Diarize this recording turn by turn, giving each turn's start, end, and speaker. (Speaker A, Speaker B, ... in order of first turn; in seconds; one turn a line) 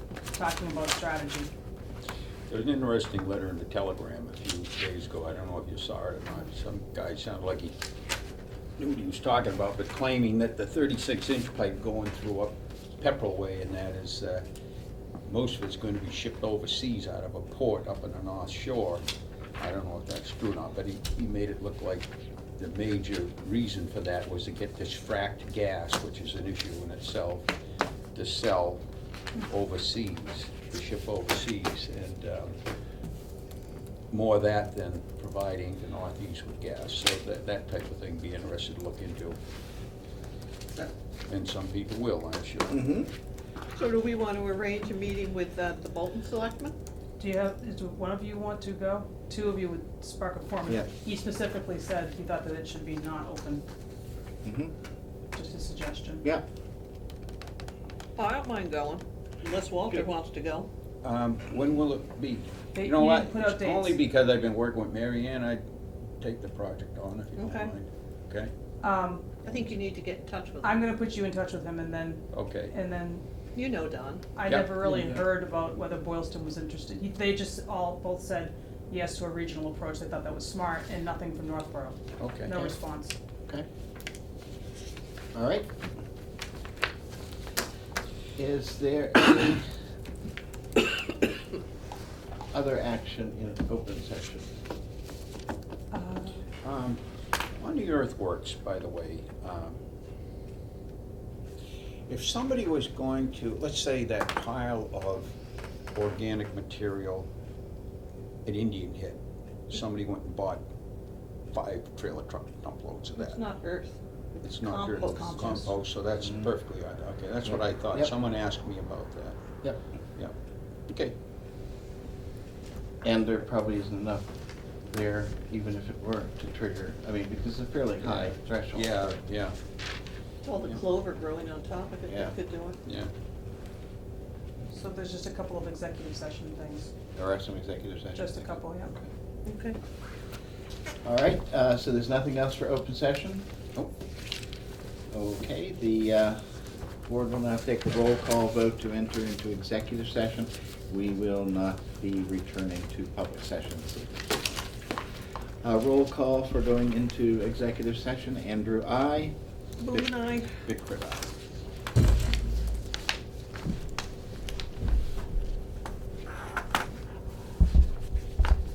Speaker A: 0.3-1.5
Speaker B: 2.5-7.8
Speaker B: 8.8-14.4
Speaker B: 15.3-19.1
Speaker B: 19.6-27.5
Speaker B: 28.1-28.8
Speaker B: 29.4-32.6
Speaker B: 34.1-39.4
Speaker B: 40.8-43.0
Speaker C: 42.7-43.1
Speaker D: 43.7-46.8
Speaker A: 47.2-53.6
Speaker C: 54.4-54.7
Speaker A: 55.3-56.3
Speaker D: 58.2-60.7
Speaker B: 61.0-65.6
Speaker A: 62.7-64.0
Speaker B: 66.2-68.5
Speaker D: 67.4-67.7
Speaker A: 68.8-69.3
Speaker D: 69.5-70.8
Speaker A: 70.6-73.2
Speaker B: 72.3-72.7
Speaker D: 73.5-74.3
Speaker A: 74.4-83.2
Speaker B: 74.5-75.0
Speaker B: 82.2-82.8
Speaker C: 85.3-85.7
Speaker C: 88.4-89.7
Speaker C: 92.5-94.5
Speaker A: 95.9-96.4
Speaker B: 96.6-97.0
Speaker B: 97.6-99.8
Speaker B: 102.1-105.3
Speaker B: 105.9-107.3
Speaker B: 108.5-110.6
Speaker B: 111.5-113.4
Speaker D: 113.2-115.4
Speaker B: 114.4-119.4
Speaker A: 115.1-115.7
Speaker C: 117.5-118.1
Speaker B: 120.9-121.2
Speaker C: 123.0-124.3
Speaker C: 124.8-129.0
Speaker B: 128.0-129.6
Speaker D: 130.4-132.8
Speaker C: 132.1-132.3
Speaker B: 132.8-133.1
Speaker A: 134.7-136.9
Speaker C: 137.2-139.1
Speaker A: 138.2-138.9
Speaker D: 139.5-139.8
Speaker C: 141.0-143.5
Speaker C: 145.1-146.4
Speaker C: 147.1-154.3
Speaker C: 155.6-159.3
Speaker D: 159.8-160.6
Speaker C: 159.9-161.3